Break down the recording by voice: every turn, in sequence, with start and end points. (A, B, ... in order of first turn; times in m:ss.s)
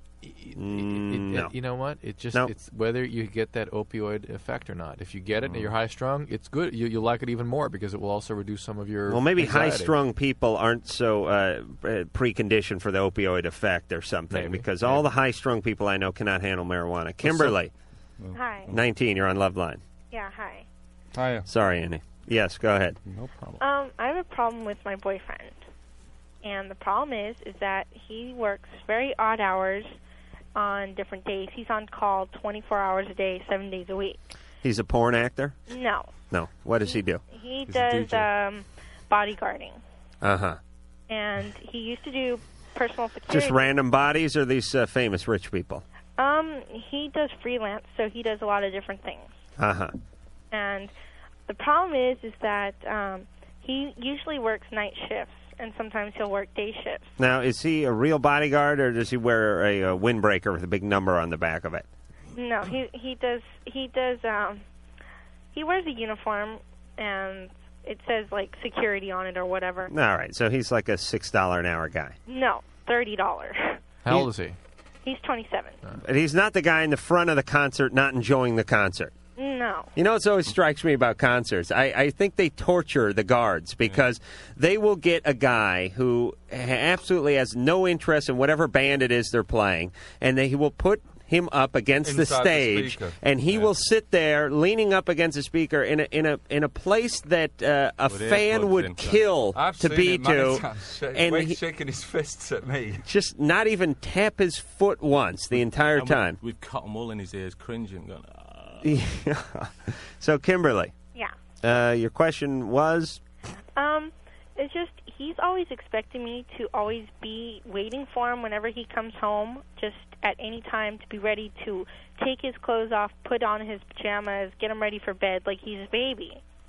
0:00.2-0:09.9 A
0:00.6-0:01.5 B
0:05.4-0:05.7 C
0:09.1-0:17.7 B
0:14.3-0:15.0 A
0:18.2-0:18.8 C
0:18.4-0:18.7 D
0:18.7-0:19.8 B
0:20.1-0:20.6 D
0:21.1-0:21.5 E
0:21.5-0:23.0 B
0:23.1-0:23.6 C
0:23.6-0:25.6 D
0:26.4-0:30.0 D
0:30.6-0:34.2 D
0:34.6-0:35.6 B
0:35.7-0:36.1 D
0:36.3-0:37.2 B
0:37.3-0:39.8 D
0:37.7-0:38.2 E
0:40.2-0:40.6 B
0:41.1-0:43.6 D
0:43.3-0:45.8 B
0:46.2-0:49.3 D
0:49.6-0:49.9 B
0:50.5-0:50.9 D
0:51.5-0:57.1 D
0:57.2-1:01.9 B
1:02.4-1:04.6 D
1:05.5-1:09.9 D
1:09.9-1:12.2 B
1:12.3-1:13.8 D
1:14.0-1:14.6 A
1:15.0-1:15.8 D
1:16.0-1:19.2 B
1:19.4-1:19.9 D
1:20.0-1:41.6 B
1:32.0-1:33.6 E
1:38.1-1:39.3 C
1:39.5-1:43.0 E
1:43.1-1:46.4 B
1:45.5-1:48.9 C
1:48.8-1:50.9 B
1:51.6-1:53.2 B
1:53.8-2:06.4 D